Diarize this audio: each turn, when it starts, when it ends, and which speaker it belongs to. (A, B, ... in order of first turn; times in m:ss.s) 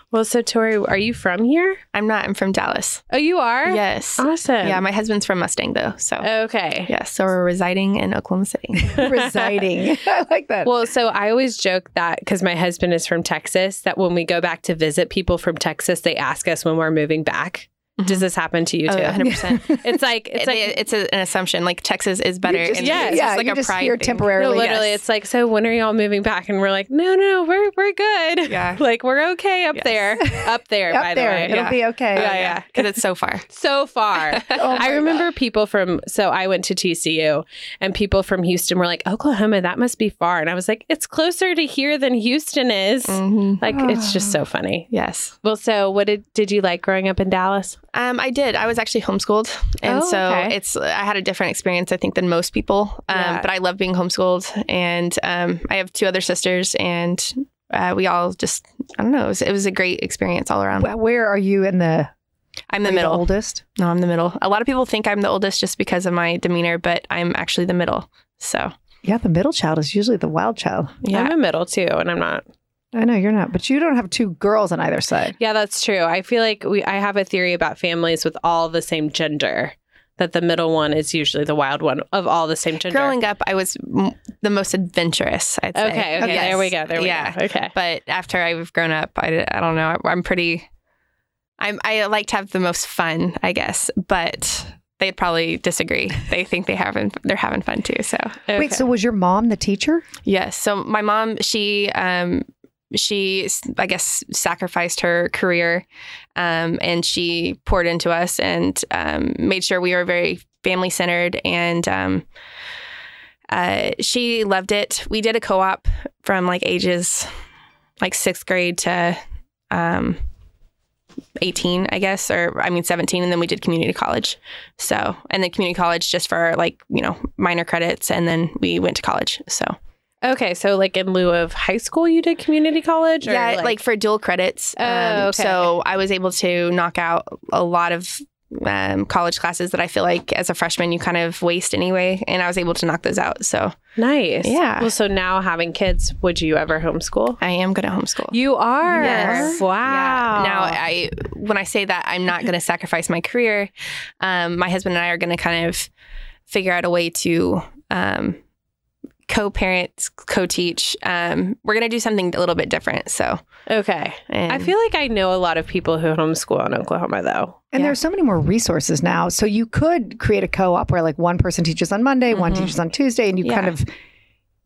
0:00.1-0:01.8 A
0:01.9-0:03.0 B
0:03.1-0:04.8 A
0:03.6-0:06.3 B
0:06.2-0:06.9 A
0:06.9-0:09.0 B
0:08.8-0:10.7 C
0:09.0-0:09.6 A
0:10.6-0:20.8 A
0:18.0-0:18.3 B
0:18.9-0:25.0 B
0:19.2-0:19.7 C
0:22.4-0:24.8 C
0:22.8-0:23.3 A
0:24.4-0:32.8 A
0:28.5-0:28.8 B
0:30.9-0:32.3 C
0:31.5-0:33.5 B
0:33.5-0:44.9 A
0:34.3-0:34.9 B
0:34.5-0:35.2 C
0:43.1-0:43.6 B
0:43.7-0:44.4 C
0:44.9-0:45.3 B
0:45.4-0:47.8 A
0:47.9-1:00.9 B
0:49.8-0:50.5 A
1:00.8-1:02.1 C
1:02.7-1:08.7 B
1:02.8-1:03.6 C
1:09.0-1:11.0 C
1:11.0-1:11.3 B
1:11.1-1:12.4 A
1:12.9-1:15.4 C
1:15.4-1:23.2 A
1:22.9-1:30.6 B
1:25.7-1:27.7 A
1:26.2-1:26.6 C
1:31.6-1:38.4 B
1:38.5-1:38.8 A
1:38.5-1:40.0 C
1:40.2-1:45.8 B
1:46.4-1:52.2 B
1:53.5-1:57.3 B
1:58.0-1:59.2 B
1:59.7-2:00.2 B
2:01.4-2:09.8 B
2:10.2-2:13.8 A
2:13.2-2:23.7 B
2:14.8-2:15.7 A
2:24.0-2:27.4 A
2:24.4-2:24.9 B
2:27.4-2:28.4 B
2:28.3-2:30.8 A
2:28.8-2:29.6 C
2:28.9-2:33.7 B
2:34.2-2:35.9 B
2:36.5-2:38.4 B
2:39.3-2:43.4 B
2:43.7-2:47.6 A
2:44.3-2:44.7 B
2:47.7-2:53.9 C
2:52.3-2:52.7 B
2:53.4-2:53.7 B